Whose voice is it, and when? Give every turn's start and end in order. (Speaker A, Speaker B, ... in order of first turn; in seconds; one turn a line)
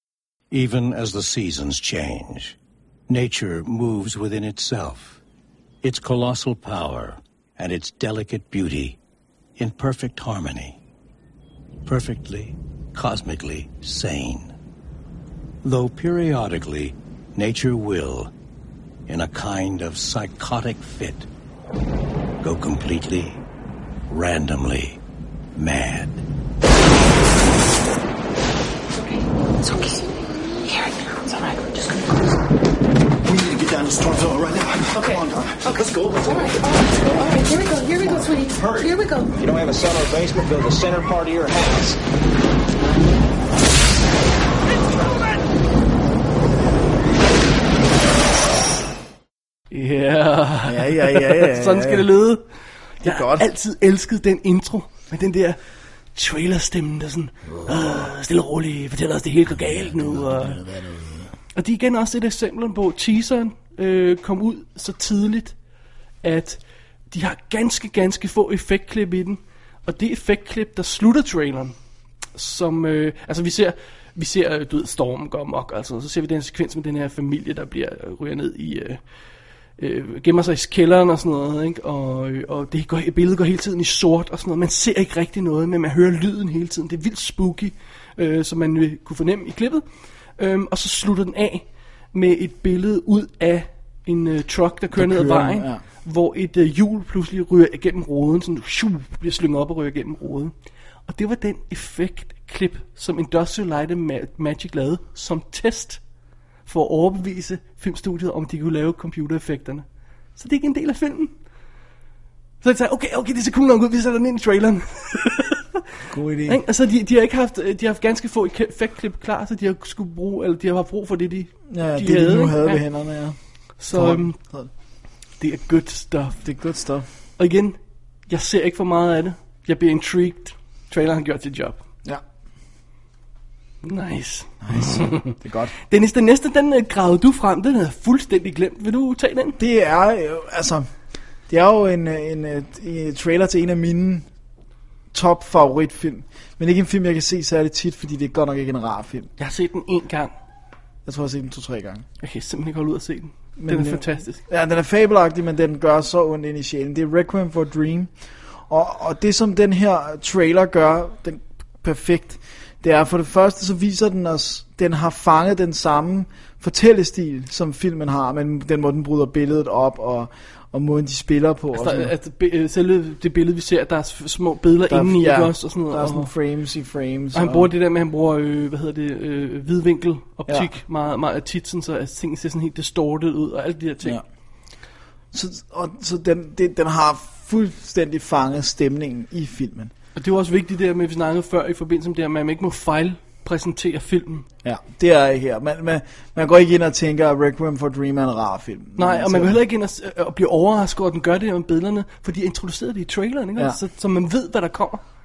Speaker A: 0.5-2.6
Speaker A: 3.1-5.2
Speaker A: 5.8-9.0
Speaker A: 9.6-10.8
Speaker A: 11.9-14.5
Speaker A: 15.6-18.3
Speaker A: 19.1-21.3
Speaker A: 22.4-23.4
Speaker A: 24.1-25.0
Speaker A: 25.6-26.2
Speaker B: 28.9-32.4
Speaker C: 33.2-36.3
Speaker B: 35.0-39.4
Speaker D: 39.4-42.0
Speaker E: 49.7-52.4
Speaker F: 50.6-52.1
Speaker E: 53.0-55.6
Speaker F: 53.0-53.4
Speaker E: 56.1-60.6
Speaker F: 59.9-61.2
Speaker E: 61.5-65.5
Speaker E: 66.2-66.6
Speaker E: 67.1-71.8
Speaker E: 72.3-79.0
Speaker E: 79.8-89.8
Speaker E: 90.4-100.5
Speaker F: 94.9-95.8
Speaker E: 101.1-106.0
Speaker E: 106.7-111.3
Speaker E: 112.6-115.8
Speaker F: 116.1-116.6
Speaker E: 116.5-122.8
Speaker F: 121.7-123.4
Speaker E: 123.8-124.4
Speaker F: 123.9-124.7
Speaker E: 125.4-126.4
Speaker F: 126.4-127.1
Speaker E: 127.4-131.8
Speaker E: 133.8-135.3
Speaker F: 134.6-135.7
Speaker E: 135.9-139.6
Speaker F: 139.6-140.9
Speaker F: 141.5-144.3
Speaker F: 145.1-149.3
Speaker E: 149.4-150.3
Speaker F: 151.1-152.1
Speaker E: 152.2-154.4
Speaker F: 153.6-158.1
Speaker F: 158.7-172.1
Speaker E: 171.7-176.3
Speaker F: 174.9-177.7
Speaker E: 177.3-184.2
Speaker F: 185.3-189.9
Speaker E: 190.1-194.5
Speaker F: 194.6-199.6
Speaker E: 199.0-205.0